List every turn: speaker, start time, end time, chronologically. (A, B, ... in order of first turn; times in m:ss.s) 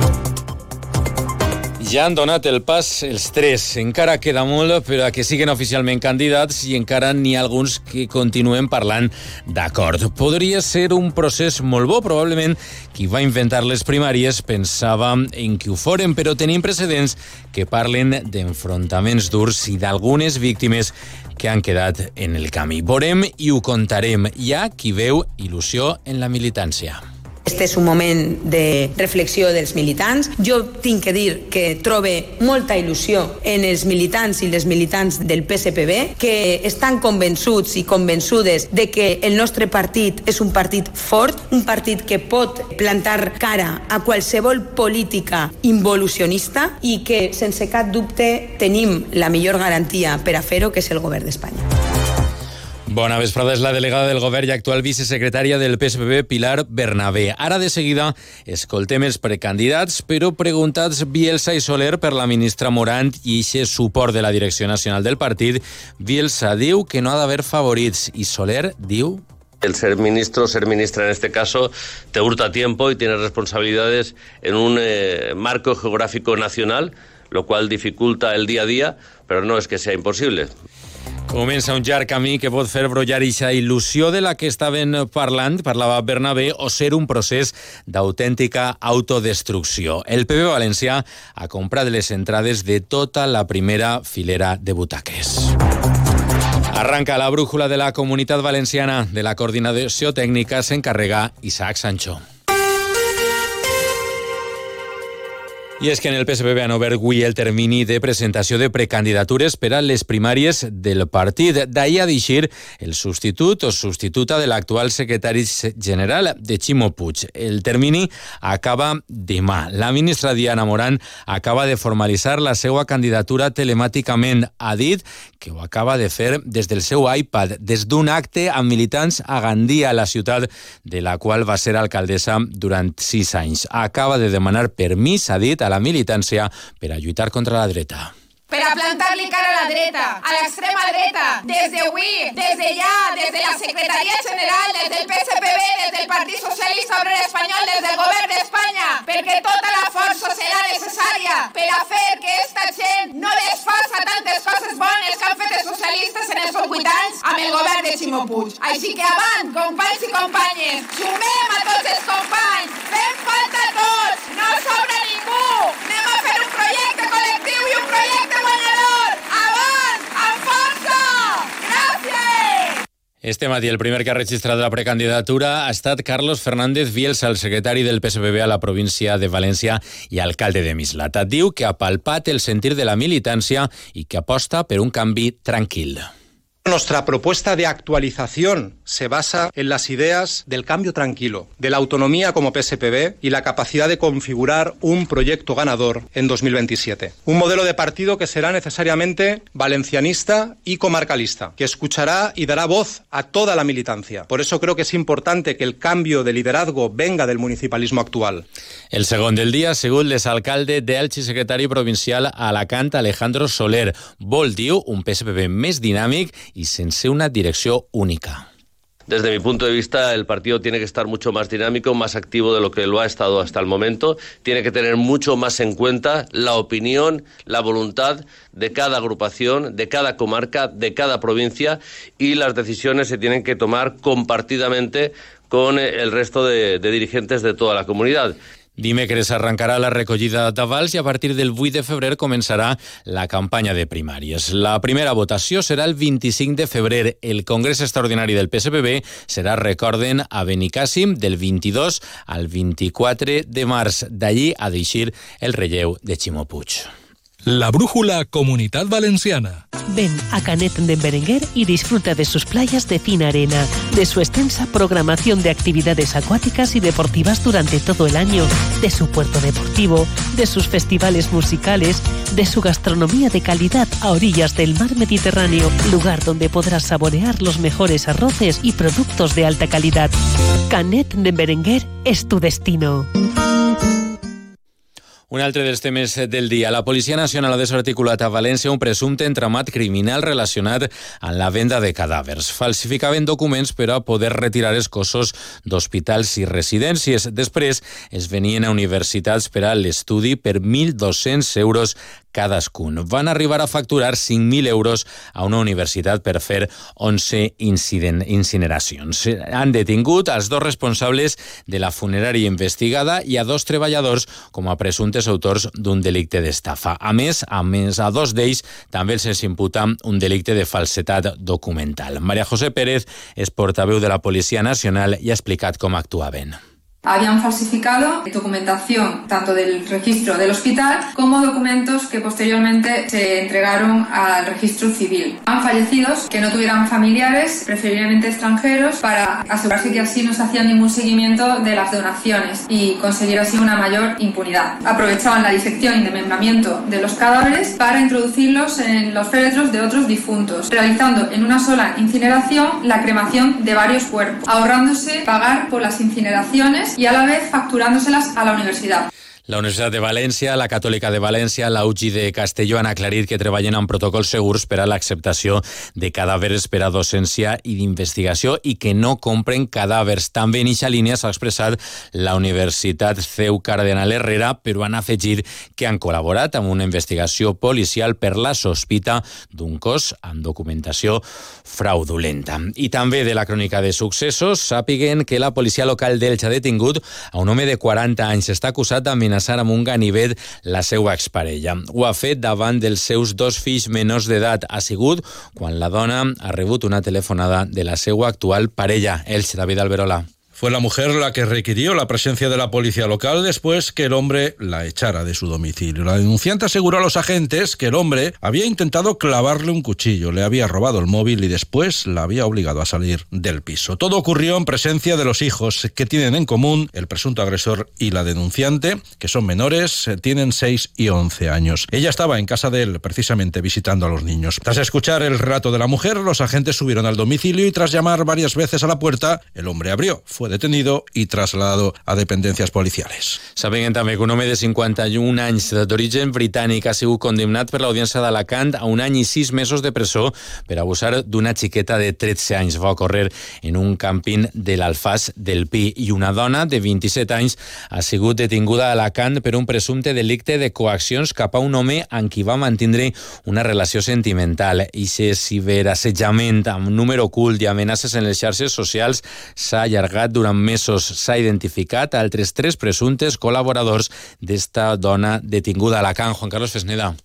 0:01.8-0:27.0 A
0:27.5-0:51.6 B
0:52.9-1:09.2 A
1:09.6-1:20.5 C
1:21.3-1:35.6 A
1:36.7-1:42.2 A
1:45.8-2:18.1 A
2:18.5-2:52.8 D
2:53.2-3:06.1 A
3:06.6-3:28.4 E
3:28.9-3:38.5 A
3:39.1-3:58.3 C
3:58.8-4:16.9 A
4:17.5-4:19.6 F
4:19.9-4:40.1 G
4:40.7-4:43.1 G
4:45.3-5:26.6 A
5:27.0-5:59.1 H
5:59.5-6:40.3 A
6:40.6-7:13.4 I
7:13.6-7:47.2 A